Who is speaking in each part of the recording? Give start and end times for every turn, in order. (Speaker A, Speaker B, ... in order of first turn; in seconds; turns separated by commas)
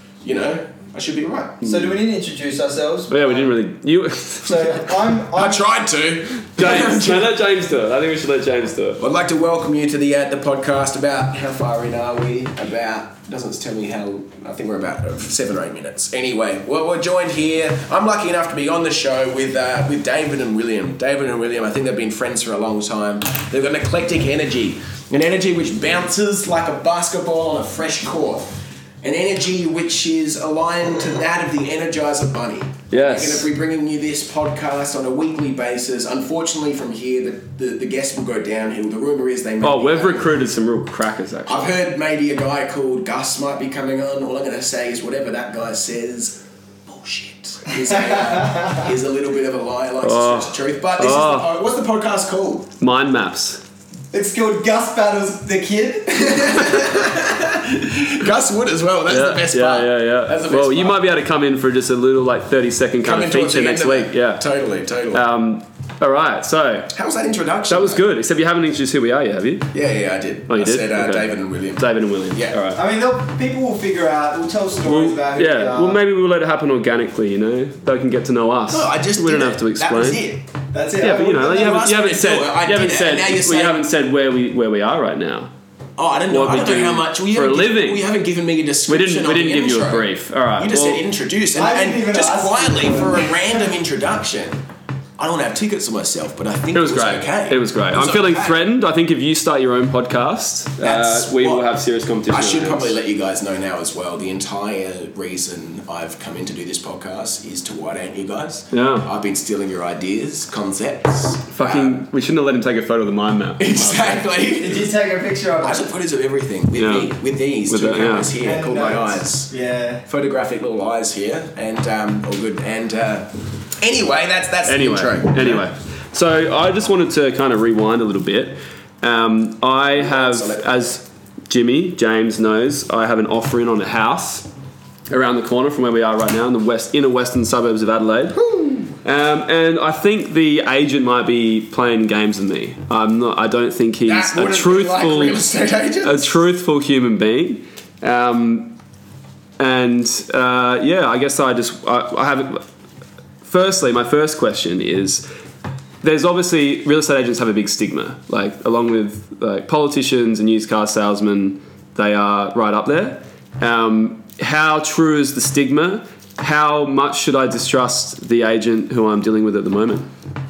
Speaker A: 0.2-1.6, Speaker B: 1.6-3.5, Speaker C: 3.1-4.9, Speaker B: 4.4-5.7, Speaker A: 5.3-7.4, Speaker C: 6.5-9.0, Speaker A: 9.0-28.5, Speaker A: 29.0-40.3, Speaker C: 32.9-33.5, Speaker C: 39.6-41.7, Speaker A: 41.5-52.7, Speaker B: 48.1-48.9, Speaker C: 50.0-51.5, Speaker C: 52.8-53.6, Speaker B: 54.1-56.9, Speaker A: 56.2-61.0, Speaker C: 59.1-64.4, Speaker A: 63.0-65.2, Speaker C: 65.1-66.9, Speaker A: 66.9-68.1, Speaker C: 67.7-69.7, Speaker A: 69.7-72.6, Speaker C: 70.5-72.8, Speaker B: 72.8-76.0, Speaker C: 74.8-80.2, Speaker A: 78.7-80.4, Speaker B: 80.7-81.8, Speaker C: 81.0-85.5, Speaker A: 81.4-83.8, Speaker A: 86.0-94.6, Speaker C: 86.3-88.0, Speaker C: 88.9-91.0, Speaker B: 91.6-93.6, Speaker A: 95.2-98.6, Speaker C: 96.7-103.0, Speaker A: 100.8-101.7, Speaker A: 102.3-112.0, Speaker C: 108.7-109.1, Speaker C: 111.5-114.2, Speaker A: 113.6-114.9, Speaker B: 114.6-115.9, Speaker A: 115.6-119.5, Speaker C: 116.8-117.1, Speaker C: 117.7-118.3, Speaker B: 118.4-120.0, Speaker A: 120.1-125.7, Speaker C: 124.7-134.5, Speaker A: 129.9-130.9, Speaker C: 135.1-138.4, Speaker A: 138.3-138.9, Speaker C: 139.0-145.5, Speaker A: 144.1-146.4, Speaker C: 146.0-148.8, Speaker C: 149.6-152.6, Speaker C: 153.4-155.3, Speaker C: 156.0-170.1